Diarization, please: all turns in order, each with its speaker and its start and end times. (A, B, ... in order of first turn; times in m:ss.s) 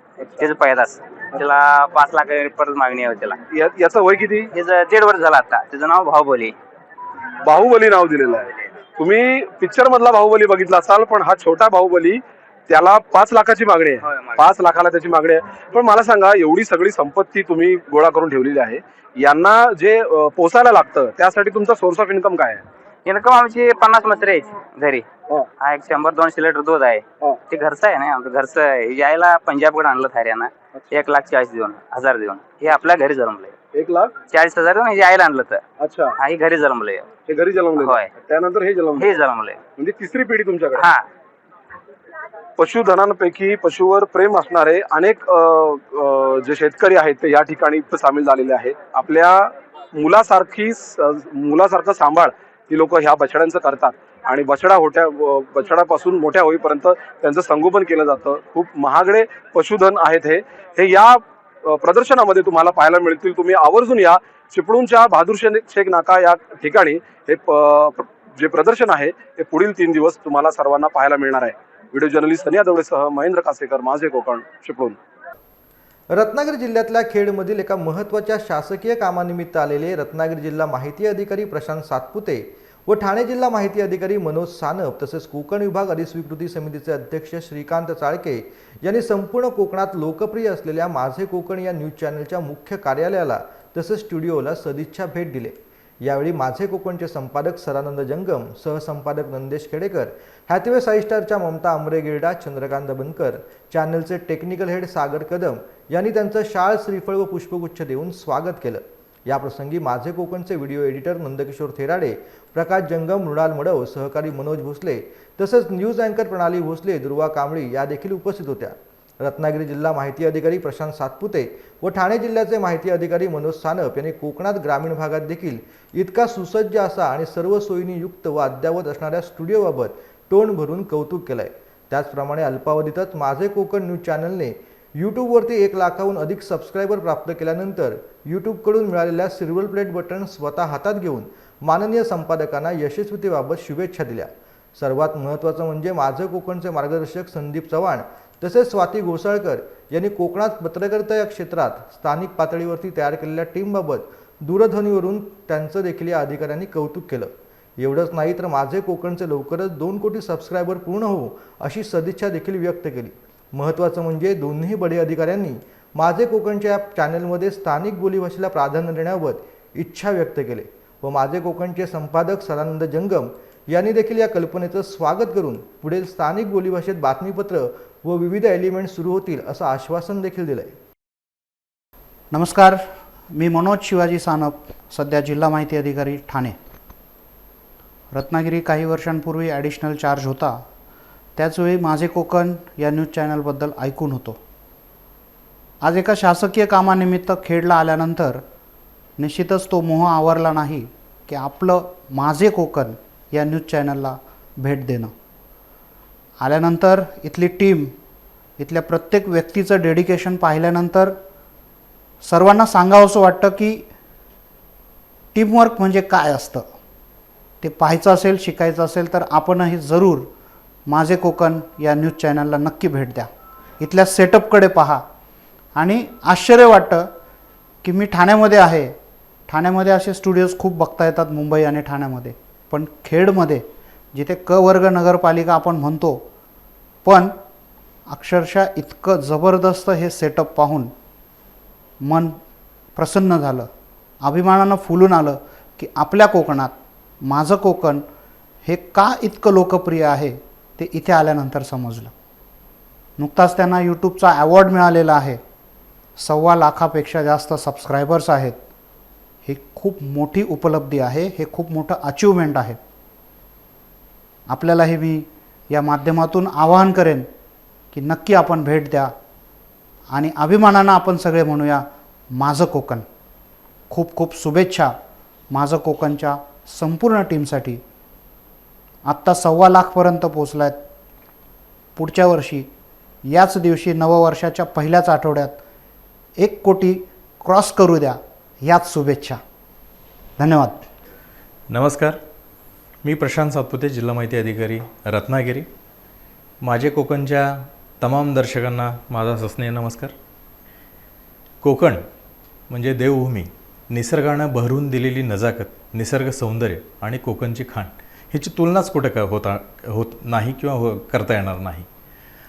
0:00.4-0:03.4 A
0:03.5-0:04.5 B
0:04.5-0:06.5 A
0:07.4-0:22.6 B
0:14.0-0:14.4 A
0:23.0-0:25.0 A
0:25.6-0:33.5 A
0:33.7-0:34.1 B
0:34.3-0:35.6 A
0:35.8-0:36.1 B
0:36.2-0:37.1 A
0:37.3-0:39.1 B
0:37.7-0:38.1 A
0:38.9-0:39.6 A
0:39.8-0:40.8 B
0:40.7-0:41.0 A
0:42.6-1:15.0 B
1:16.1-3:00.7 C
3:02.3-3:06.6 D
3:08.1-3:10.6 D
3:11.4-3:14.4 D
3:15.8-3:18.4 D
3:19.2-3:25.1 D
3:26.4-3:27.9 D
3:28.6-3:31.2 D
3:32.2-3:33.9 D
3:35.3-3:36.7 D
3:37.6-3:40.3 D
3:40.9-3:43.3 D
3:43.8-3:45.0 D
3:45.8-3:47.1 D
3:47.8-3:49.0 D
3:49.5-3:56.2 D
3:57.0-3:57.4 D
3:58.1-4:00.9 D
4:02.0-4:02.4 D
4:03.0-4:03.7 D
4:04.2-4:08.0 D
4:08.6-4:12.1 D
4:13.2-4:15.4 D
4:16.2-4:18.6 D
4:19.4-4:22.8 D
4:24.5-4:27.3 D
4:27.9-4:29.1 D
4:30.1-4:33.0 D
4:33.9-4:34.9 D
4:35.5-4:37.8 D
4:39.0-4:40.8 D
4:42.0-4:42.7 D
4:43.2-4:45.6 D
4:46.4-4:49.4 D
4:50.4-4:50.8 D
4:51.7-4:52.2 E
4:53.0-4:55.7 E
4:56.6-5:00.1 E
5:01.6-5:02.0 E
5:02.7-5:11.9 E